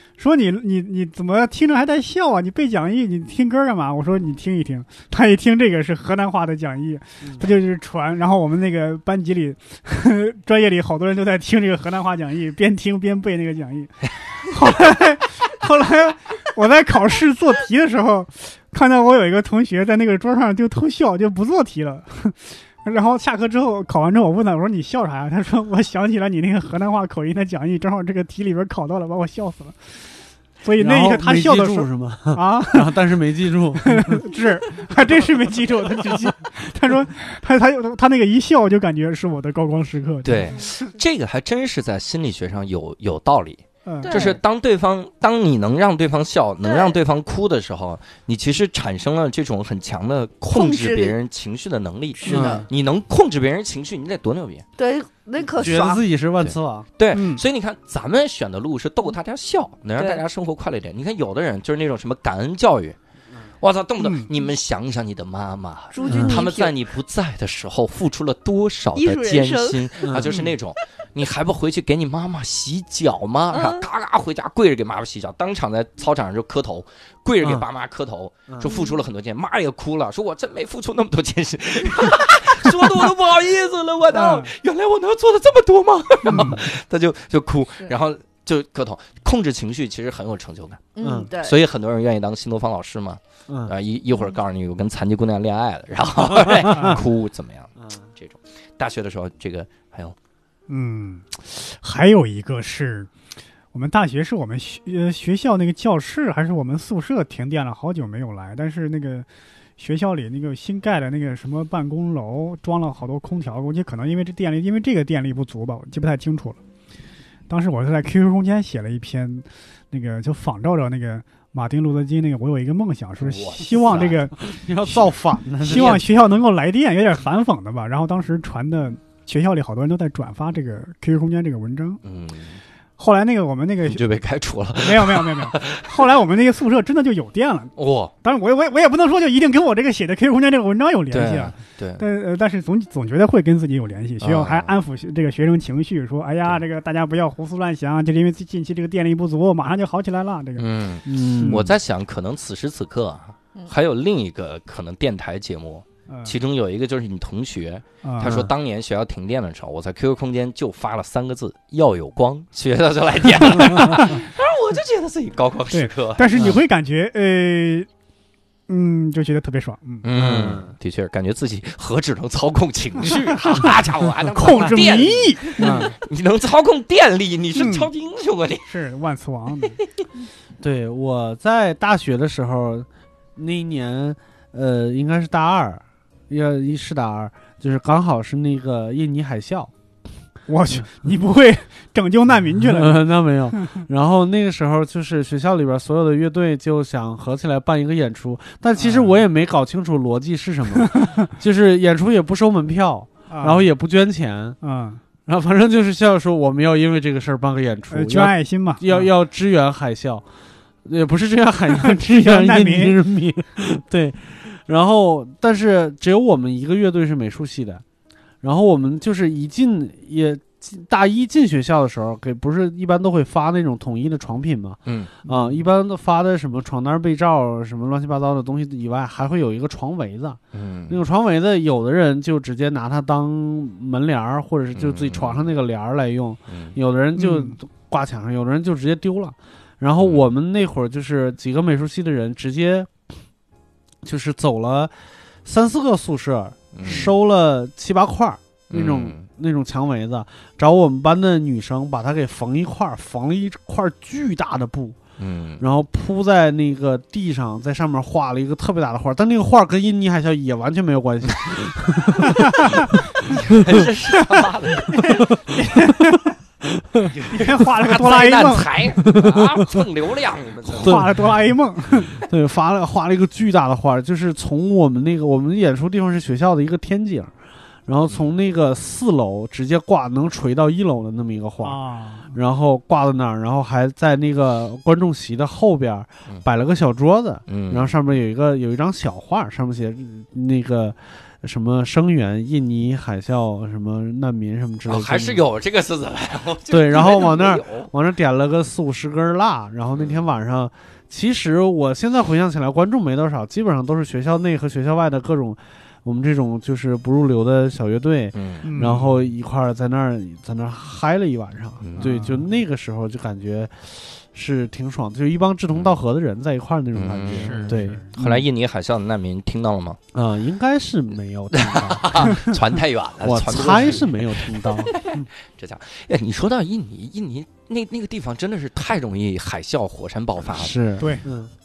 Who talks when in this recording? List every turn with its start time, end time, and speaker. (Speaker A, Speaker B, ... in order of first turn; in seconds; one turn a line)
Speaker A: 0.2-29.8
Speaker A: 30.6-33.0
Speaker B: 30.8-34.2
Speaker A: 33.8-40.7
Speaker C: 40.2-54.7
Speaker A: 43.9-44.3
Speaker D: 44.0-44.4
Speaker D: 46.6-47.0
Speaker D: 50.5-51.2
Speaker D: 52.2-52.7
Speaker B: 52.3-52.7
Speaker D: 54.8-56.0
Speaker B: 55.5-56.9
Speaker C: 56.4-63.0
Speaker A: 57.1-57.4
Speaker D: 60.0-60.2
Speaker C: 63.6-90.9
Speaker A: 64.0-64.3
Speaker D: 65.9-66.8
Speaker B: 66.1-66.4
Speaker D: 69.0-70.0
Speaker B: 70.0-70.5
Speaker D: 73.5-73.9
Speaker D: 78.6-79.0
Speaker A: 84.1-84.5
Speaker A: 86.3-86.7
Speaker D: 91.0-91.6
Speaker B: 91.0-91.3
Speaker C: 91.4-100.2
Speaker B: 93.5-93.7
Speaker B: 96.5-97.0
Speaker A: 96.7-97.0
Speaker A: 100.7-103.1
Speaker A: 103.7-109.3
Speaker A: 109.8-116.6
Speaker A: 117.5-125.1
Speaker C: 123.2-124.2
Speaker B: 124.0-126.0
Speaker A: 125.6-132.0
Speaker C: 132.0-132.6
Speaker A: 133.0-134.0
Speaker C: 133.8-136.1
Speaker A: 134.8-150.7
Speaker C: 137.8-138.1
Speaker C: 141.1-142.0
Speaker C: 144.2-144.8
Speaker C: 150.6-166.6
Speaker B: 151.1-151.7
Speaker A: 151.4-151.7
Speaker A: 156.1-156.3
Speaker A: 158.0-158.4
Speaker B: 158.2-158.5
Speaker A: 165.7-167.9
Speaker A: 168.7-170.1
Speaker C: 170.0-178.7
Speaker B: 170.2-170.8
Speaker A: 174.3-175.9
Speaker B: 175.6-175.9
Speaker A: 177.6-177.9
Speaker A: 178.7-179.8
Speaker B: 180.6-189.7
Speaker A: 190.5-193.8
Speaker B: 192.6-204.6
Speaker A: 198.8-199.2
Speaker A: 200.8-201.2
Speaker A: 203.3-203.7
Speaker A: 204.6-205.0
Speaker B: 205.3-210.2
Speaker A: 207.9-209.1
Speaker B: 210.8-217.8
Speaker A: 211.8-213.0
Speaker B: 218.4-242.9
Speaker C: 224.9-225.2
Speaker C: 230.5-231.0
Speaker C: 234.7-235.5
Speaker C: 236.5-236.8
Speaker A: 237.2-237.6
Speaker C: 240.0-240.2
Speaker B: 244.0-244.9
Speaker B: 245.4-255.0
Speaker C: 246.7-247.1
Speaker C: 248.7-249.2
Speaker C: 255.2-255.6
Speaker B: 255.6-262.9
Speaker A: 262.4-262.8
Speaker C: 263.2-265.3
Speaker B: 263.6-263.9
Speaker A: 264.3-266.3
Speaker B: 266.8-267.1
Speaker C: 267.1-271.2
Speaker A: 267.3-268.7
Speaker B: 269.1-269.8
Speaker B: 270.7-271.2
Speaker A: 270.8-272.1
Speaker B: 272.2-277.3
Speaker B: 277.9-281.8
Speaker A: 281.6-282.3
Speaker B: 282.3-295.4
Speaker C: 287.5-287.9
Speaker C: 294.9-297.9
Speaker B: 296.7-318.4
Speaker C: 299.9-300.2
Speaker C: 308.4-308.7
Speaker A: 308.6-309.2
Speaker C: 311.8-312.2
Speaker A: 312.0-312.4
Speaker C: 316.9-320.0
Speaker A: 317.3-318.1
Speaker B: 320.1-322.4
Speaker C: 321.5-330.8
Speaker B: 323.2-324.9
Speaker B: 330.5-331.5
Speaker A: 331.0-331.3